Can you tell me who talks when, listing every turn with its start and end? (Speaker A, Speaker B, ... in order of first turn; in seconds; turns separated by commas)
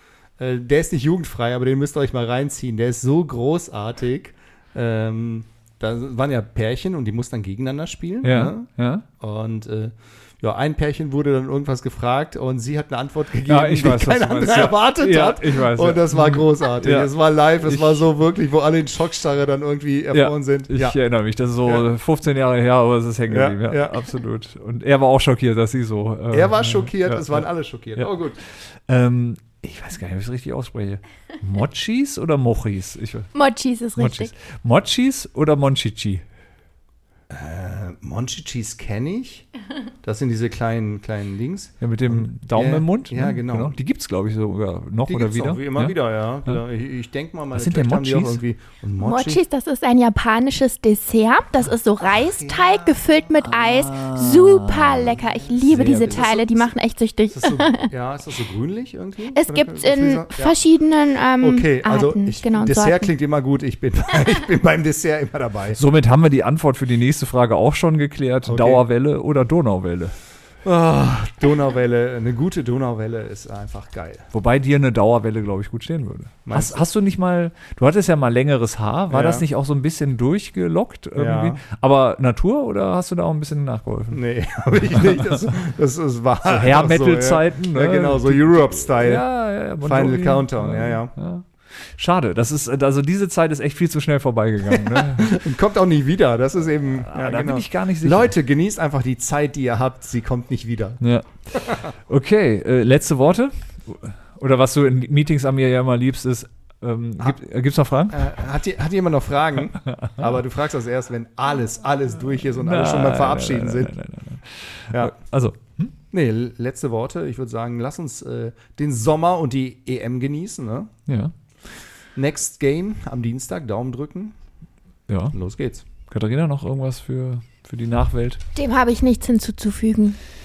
Speaker A: 0.4-21.0, Speaker B: 8.2-9.1, Speaker B: 13.5-18.1, Speaker B: 20.1-33.3, Speaker A: 23.3-24.1, Speaker A: 26.3-28.4, Speaker C: 33.3-34.3, Speaker B: 34.0-36.2, Speaker A: 37.3-39.5, Speaker A: 40.0-43.8, Speaker B: 41.8-46.6, Speaker A: 45.1-49.4, Speaker B: 47.5-48.4, Speaker C: 49.0-57.9, Speaker A: 52.0-53.0, Speaker B: 53.4-56.2, Speaker A: 55.6-56.7, Speaker A: 57.3-60.6, Speaker C: 59.3-63.1, Speaker A: 61.4-65.8, Speaker B: 65.8-70.2, Speaker A: 68.5-68.8, Speaker A: 70.6-74.3, Speaker B: 74.3-84.2, Speaker A: 76.5-76.8, Speaker A: 79.1-79.5, Speaker A: 81.2-81.6, Speaker A: 84.1-89.3, Speaker B: 86.5-95.4, Speaker A: 89.8-91.1, Speaker A: 94.7-101.0, Speaker B: 97.0-98.3, Speaker B: 101.0-108.3, Speaker A: 101.5-101.9, Speaker A: 108.1-114.0, Speaker B: 109.9-110.2, Speaker B: 112.5-115.9, Speaker A: 116.1-120.9, Speaker B: 121.1-121.3, Speaker A: 122.2-124.3, Speaker B: 125.1-125.4, Speaker A: 125.3-125.8, Speaker B: 126.1-128.4, Speaker C: 128.6-130.2